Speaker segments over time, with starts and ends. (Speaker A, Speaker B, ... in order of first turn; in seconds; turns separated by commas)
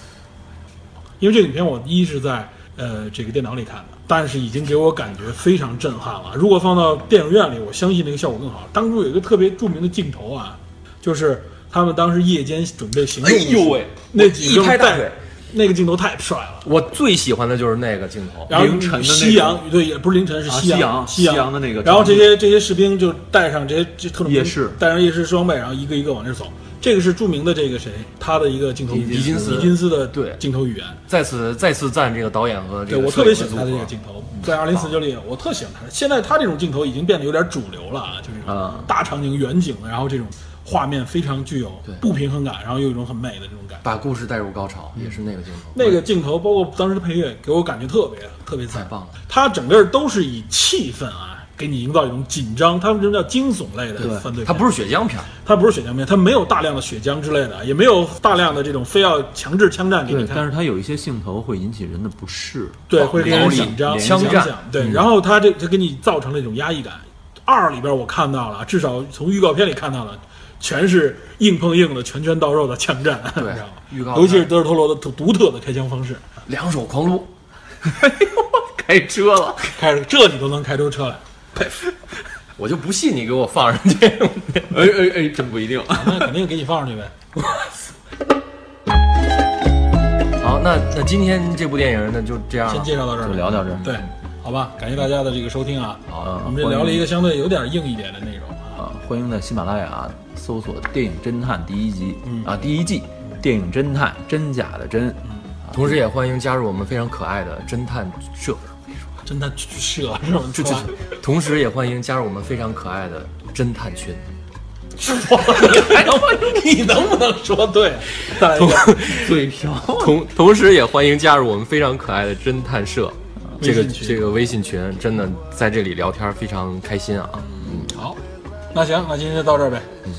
Speaker A: 1.2-16.7, Speaker B: 13.2-13.9, Speaker C: 13.9-15.2, Speaker C: 16.6-18.5, Speaker A: 18.5-31.0, Speaker B: 18.5-19.6, Speaker B: 20.4-22.4, Speaker B: 24.2-24.8, Speaker C: 28.9-30.4, Speaker C: 31.1-33.9, Speaker A: 32.9-43.8, Speaker C: 34.4-35.0, Speaker B: 38.5-38.9, Speaker C: 43.8-46.0, Speaker A: 45.7-54.8, Speaker C: 48.7-49.1, Speaker B: 54.0-54.2, Speaker C: 54.4-55.3, Speaker A: 55.4-60.5, Speaker B: 60.1-65.0, Speaker A: 62.9-76.2, Speaker C: 63.0-64.5, Speaker C: 73.4-74.5, Speaker C: 76.5-77.3, Speaker B: 77.8-79.8, Speaker A: 79.7-81.2, Speaker C: 82.6-84.7, Speaker B: 84.7-86.3, Speaker A: 85.9-87.1, Speaker C: 87.4-87.7, Speaker C: 90.4-93.0, Speaker A: 92.7-98.8, Speaker B: 93.2-94.0, Speaker B: 96.2-97.1, Speaker B: 98.8-106.0, Speaker A: 102.2-102.5, Speaker C: 105.7-109.0, Speaker A: 109.2-110.9, Speaker C: 110.6-114.2, Speaker A: 115.0-119.0, Speaker C: 115.6-116.1, Speaker C: 118.1-119.4, Speaker B: 119.0-120.2, Speaker C: 119.9-127.9, Speaker A: 123.6-124.2, Speaker A: 127.8-128.2, Speaker A: 128.7-129.9